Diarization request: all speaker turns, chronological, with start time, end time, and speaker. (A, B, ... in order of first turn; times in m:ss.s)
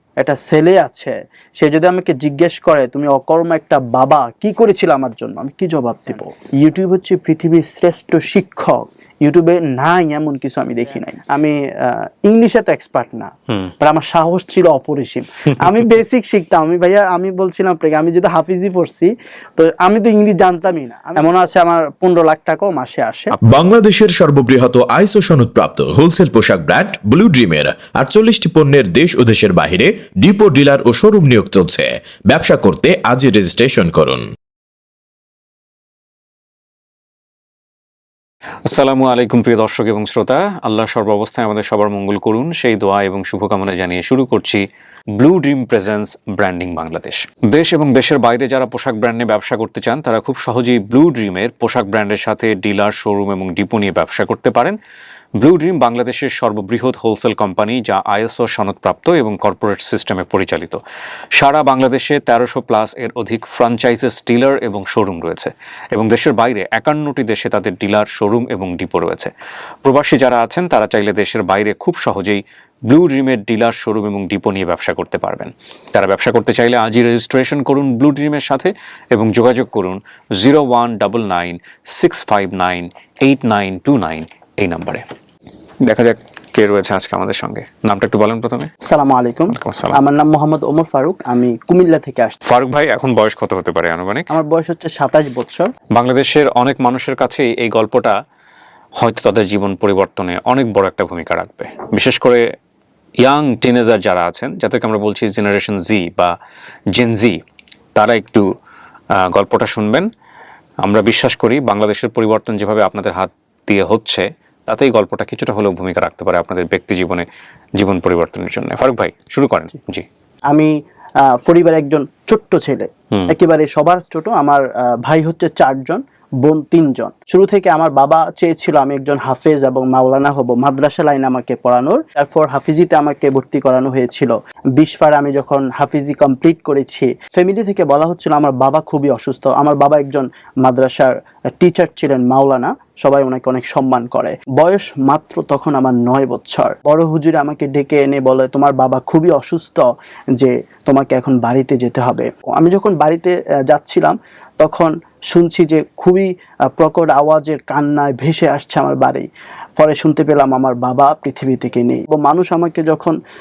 0:00.2-0:23.4 A
0:23.4-0:34.3 B
0:38.6-0:44.6 C
0:45.2-0:54.8 C
0:55.4-1:00.8 C
1:01.4-1:09.3 C
1:09.8-1:25.0 C
1:25.8-1:28.7 C
1:28.8-1:32.4 A
1:29.5-1:30.0 C
1:32.5-1:34.3 C
1:34.3-1:35.7 A
1:36.0-1:38.2 C
1:39.0-1:42.4 C
1:43.2-1:46.3 C
1:47.0-1:47.4 C
1:48.0-1:48.5 C
1:49.2-1:50.1 C
1:50.8-1:57.3 C
1:57.8-2:00.1 C
2:01.3-2:43.2 A